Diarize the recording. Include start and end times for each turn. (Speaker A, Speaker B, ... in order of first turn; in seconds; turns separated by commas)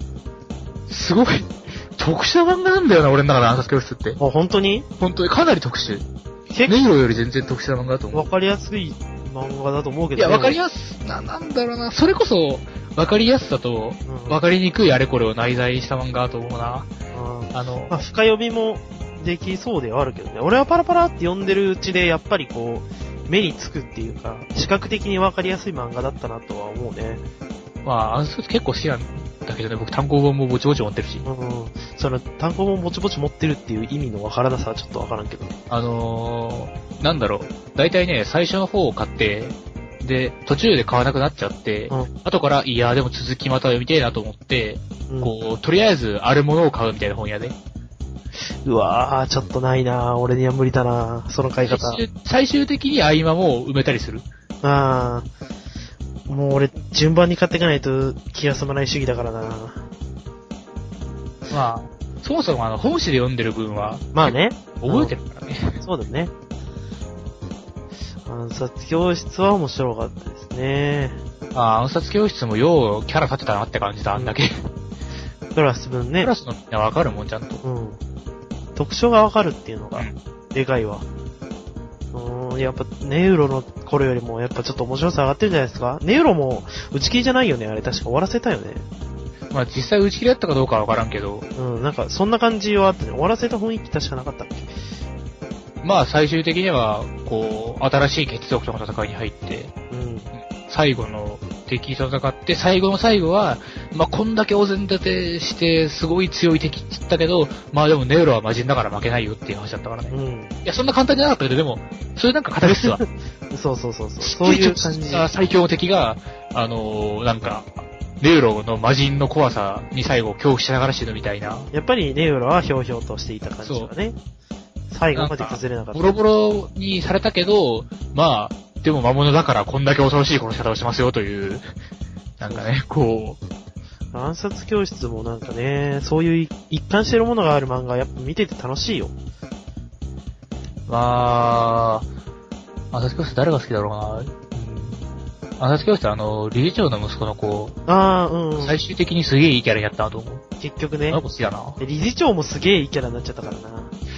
Speaker A: 0.9-4.2, Speaker B: 4.2-4.9, Speaker A: 5.0-6.1, Speaker B: 6.5-6.8, Speaker A: 6.7-8.3, Speaker B: 8.1-10.6, Speaker A: 10.2-16.9, Speaker B: 14.1-14.4, Speaker B: 17.1-27.2, Speaker A: 17.5-18.0, Speaker A: 27.8-31.3, Speaker B: 31.2-35.5, Speaker A: 35.7-47.6, Speaker B: 48.6-52.0, Speaker A: 51.7-54.3, Speaker B: 54.6-55.3, Speaker B: 56.3-59.8, Speaker A: 61.5-65.8, Speaker B: 64.1-65.1, Speaker B: 65.8-66.3, Speaker B: 68.3-71.2, Speaker A: 71.5-74.7, Speaker B: 75.5-76.3, Speaker A: 76.2-77.6, Speaker B: 77.6-78.0, Speaker B: 78.8-81.0, Speaker B: 82.1-88.8, Speaker A: 89.5-91.5, Speaker B: 91.6-94.7, Speaker A: 95.8-99.7, Speaker B: 99.9-100.3, Speaker A: 100.3-113.0, Speaker B: 110.1-110.5, Speaker B: 112.6-115.3, Speaker A: 114.2-121.7, Speaker B: 121.7-124.2, Speaker A: 123.6-123.9, Speaker B: 124.9-126.1, Speaker A: 125.1-131.7, Speaker A: 132.4-133.4, Speaker B: 132.4-132.7, Speaker B: 134.1-139.1, Speaker A: 140.9-142.1, Speaker A: 142.9-145.0, Speaker A: 145.6-147.8, Speaker B: 147.9-148.8, Speaker A: 148.6-150.4, Speaker B: 150.6-151.2, Speaker A: 151.1-151.8, Speaker B: 151.8-153.9